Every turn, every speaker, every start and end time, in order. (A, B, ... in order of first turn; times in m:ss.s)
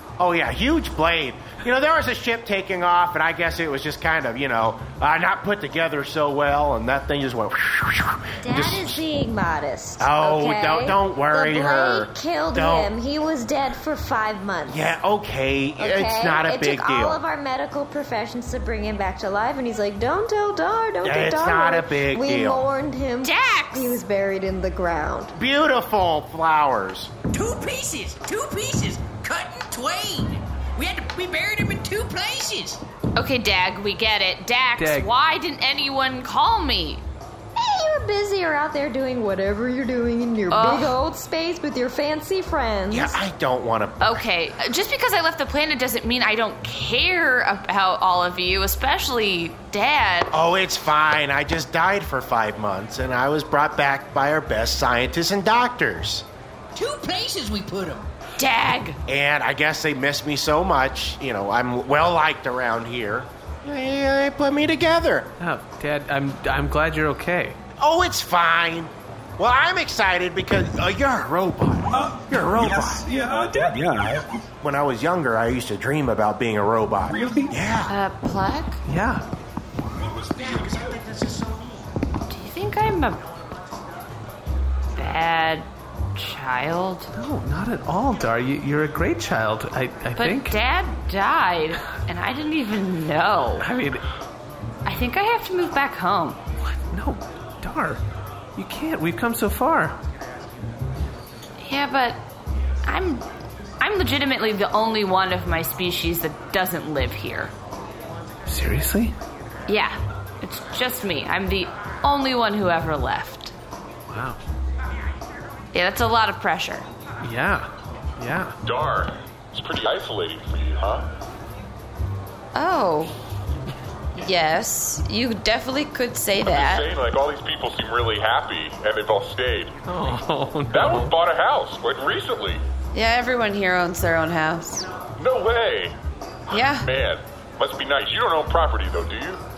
0:00.2-0:09.0 A
0:08.4-0:08.8 B
0:08.6-0:14.8 C
0:10.0-0:12.9 A
0:14.7-0:17.2 A
0:15.8-0:25.3 C
0:21.0-0:22.7 A
0:23.2-0:23.9 B
0:25.4-0:27.1 A
0:27.3-0:32.8 D
0:33.2-0:37.0 B
0:34.8-0:35.1 E
0:37.6-0:43.2 C
0:40.5-0:40.9 B
0:42.9-0:44.2 A
0:44.0-0:50.3 B
0:50.3-0:56.2 A
0:56.7-0:58.1 D
0:58.4-0:59.0 B
0:59.1-1:05.3 A
1:05.4-1:07.6 E
1:07.8-1:13.0 A
1:11.9-1:14.3 F
1:14.6-1:17.9 A
1:17.1-1:17.5 F
1:17.9-1:18.8 B
1:18.8-1:19.2 E
1:20.0-1:20.9 F
1:20.3-1:21.9 A
1:22.3-1:23.2 B
1:24.9-1:27.1 B
1:27.1-1:30.6 E
1:30.2-1:33.6 B
1:33.6-1:34.0 E
1:34.8-1:36.4 B
1:36.7-1:38.0 E
1:38.6-1:40.0 E
1:41.6-1:42.2 B
1:42.8-1:43.2 B
1:43.8-1:47.5 B
1:48.4-1:49.1 E
1:49.7-1:53.5 B
1:54.1-1:54.4 E
1:55.7-1:56.8 B
1:57.2-1:58.5 E
1:58.6-2:01.0 G
2:02.5-2:03.1 B
2:04.2-2:06.9 B
2:06.4-2:09.8 G
2:09.9-2:11.1 E
2:10.7-2:12.6 G
2:12.9-2:14.8 B
2:15.2-2:15.9 G
2:16.5-2:16.8 B
2:16.8-2:19.4 G